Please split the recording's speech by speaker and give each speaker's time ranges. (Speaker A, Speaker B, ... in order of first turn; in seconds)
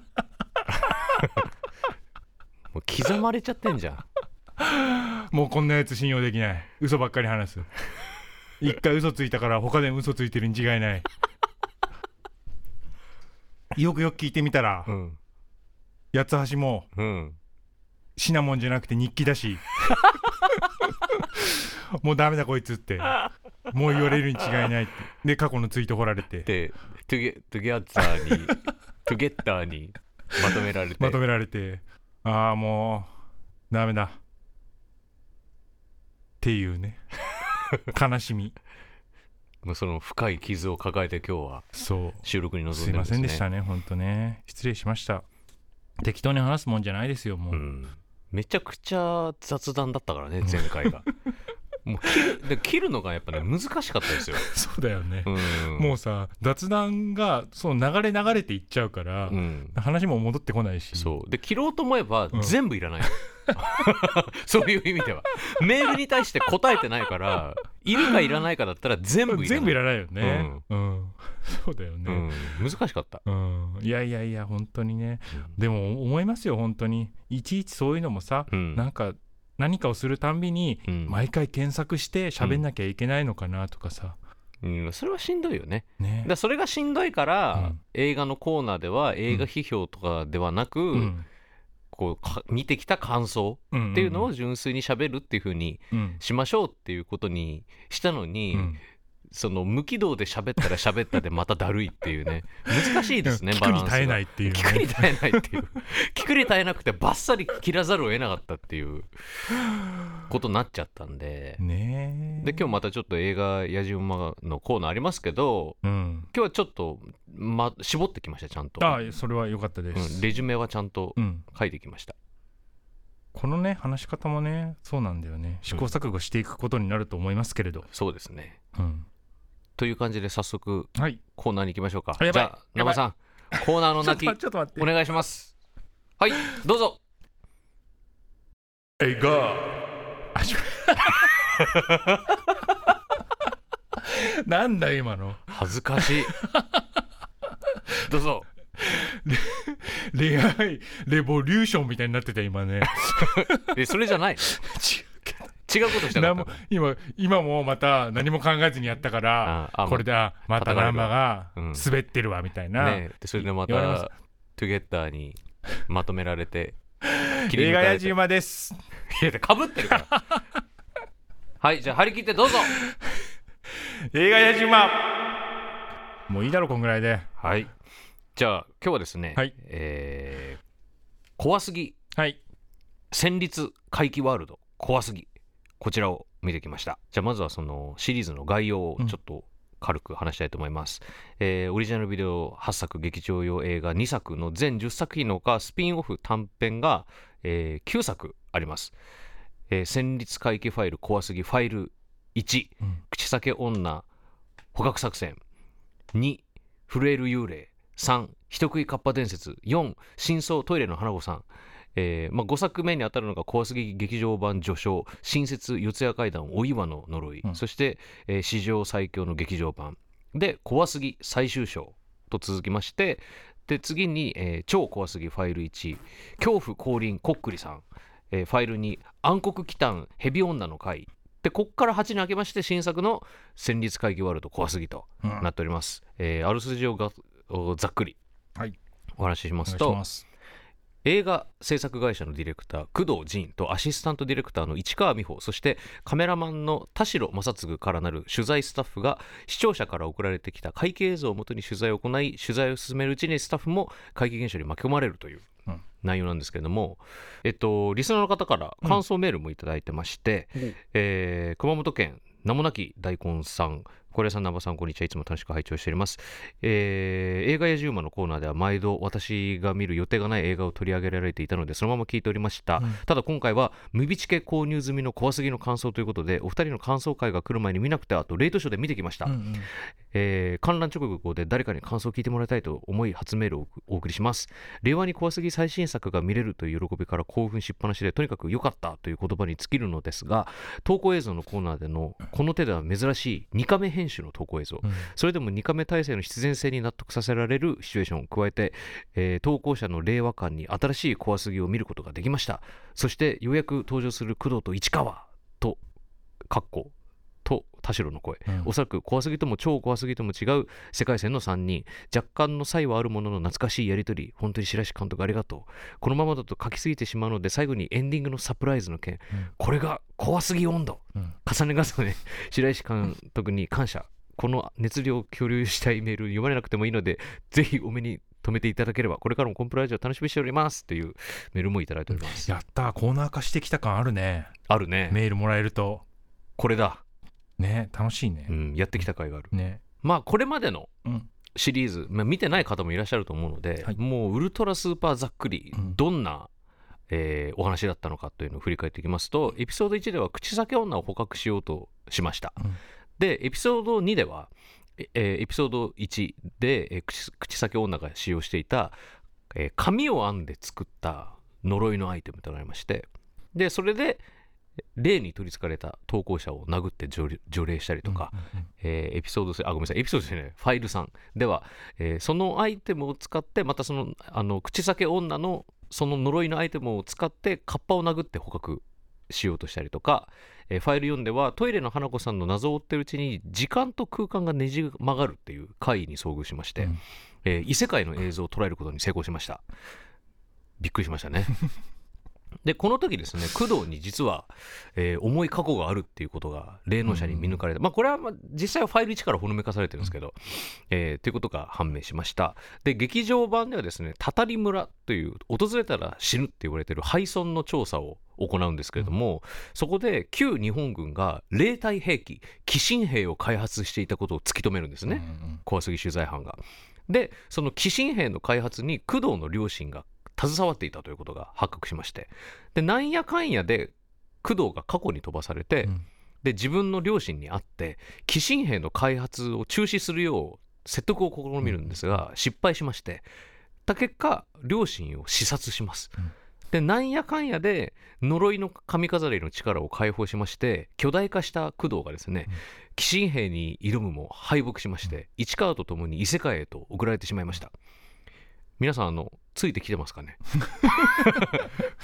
Speaker A: 1.2-1.4, 2.7-4.0, 14.8-15.2, 16.9-17.4, 26.4-31.2, 39.6-41.7, 42.2-43.5, 47.5-51.0, 51.8-54.5, 55.2-56.0, 59.3-59.8, 60.9-70.6, 72.0-73.2, 78.5-78.8, 80.9-81.2, 84.6-91.1, 91.9-98.8, 99.3-109.1, 110.3-111.6, 112.4-115.8, 116.3-119.0, 119.9-122.2, 127.9-128.6, 129.8-135.5, 136.2-137.0, 141.8-142.2, 145.5-146.3, 148.0-148.5, 152.8-154.6, 155.7-156.6, 159.4-161.9, 162.8-166.8, 167.5-168.2, 169.1-170.1, 171.6-172.7, 177.4-177.7, 178.3-180.6, 181.4-182.0, 183.1-185.3, 185.8-198.9, 199.7-204.1, 204.7-205.4, 206.1-238.2, 239.2-240.0, 241.0-255.5, 256.0-305.8, 306.5-306.9, 307.4-332.5, 334.7-335.2, 336.6-337.0, 338.5-340.9, 341.5-346.5, 347.1-352.6, 353.2-358.9, 359.5-364.2, 365.0-389.6, 390.8-391.6, 392.6-433.2, 433.9-436.2, 436.7-447.7, 448.8-451.7
Speaker B: 4.6-7.7, 8.6-11.1, 13.7-14.9, 16.1-16.9, 18.1-20.3, 21.1-26.5, 28.0-28.5, 31.0-33.1, 33.7-34.2, 36.4-37.0, 37.9-38.5, 41.7-45.2, 46.0-47.6, 50.4-51.1, 52.0-52.4, 54.2-61.1, 62.3-63.9, 68.0-68.3, 69.3-72.5, 73.2-84.2, 86.0-86.3, 90.9-91.2, 93.7-94.3, 95.9-96.2, 98.5-98.8, 102.8-105.6, 109.7-110.1, 111.6-112.7, 115.8-116.3, 118.8-120.3, 121.2-121.4, 123.3-127.9, 128.7-129.1, 130.9-131.2, 132.2-133.0, 133.6-134.9, 139.0-139.8, 140.3-141.8, 144.0-145.4, 146.0-147.0, 147.7-148.0, 148.8-153.8, 154.5-164.1, 167.0-168.8, 169.9-170.4, 172.8-173.2, 173.8-175.1, 176.3-177.3, 235.2-235.5, 239.6-240.2, 279.2-279.7, 332.1-334.5, 335.1-336.0, 337.6-339.8, 368.1-368.7, 397.1-397.6, 415.1-415.6, 450.6-451.5